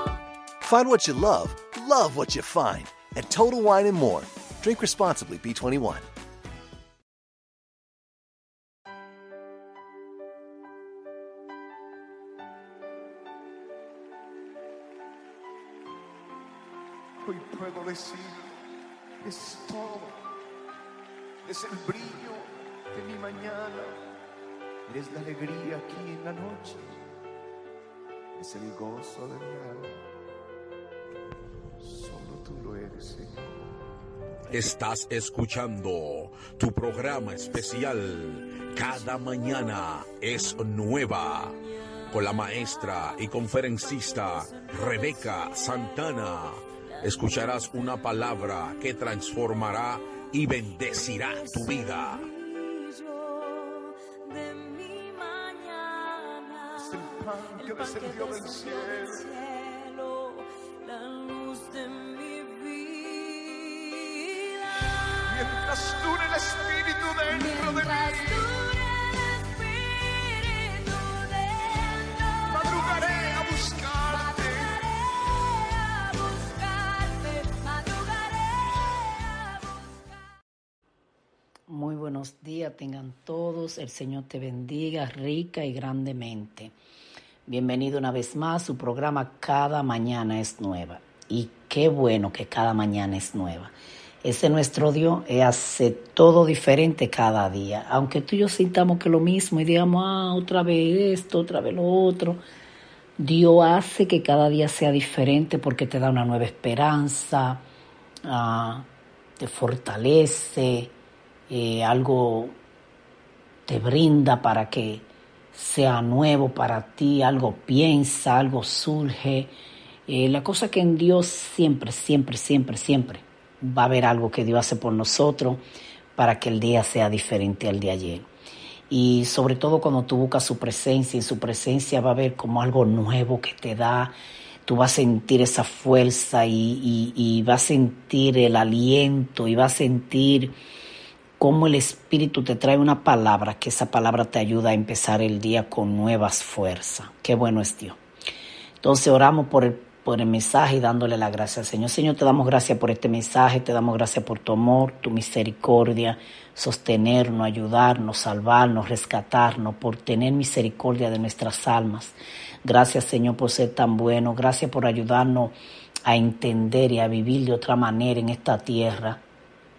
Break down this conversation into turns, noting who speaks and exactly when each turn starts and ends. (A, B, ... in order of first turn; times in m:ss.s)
0:00.6-0:06.1 A
0:17.2-0:18.5 B
0:19.2-0:20.3 B
0:21.4-0:23.9 B
0:24.9-0:27.0 B
0:28.4-0:30.0 B
0:31.8-0:33.7 B
0:34.5-0:41.6 C
0:39.0-0:39.7 D
0:42.1-0:52.2 C
0:42.1-0:48.1 D
0:49.6-1:04.9 D
0:56.8-0:59.2 B
1:05.3-1:08.6 B
1:07.3-1:20.2 D
1:12.5-1:14.8 B
1:21.7-1:26.7 E
1:27.5-1:33.7 E
1:34.2-1:42.4 E
1:43.2-1:47.6 E
1:48.2-1:48.9 E
1:49.4-1:50.9 E
1:51.5-1:52.5 E
1:53.7-1:59.5 E
2:00.1-2:05.6 E
2:06.2-2:08.3 E
2:08.9-2:14.1 E
2:14.7-2:20.5 E
2:21.4-2:28.0 E
2:28.8-2:45.6 E
2:46.1-2:49.2 E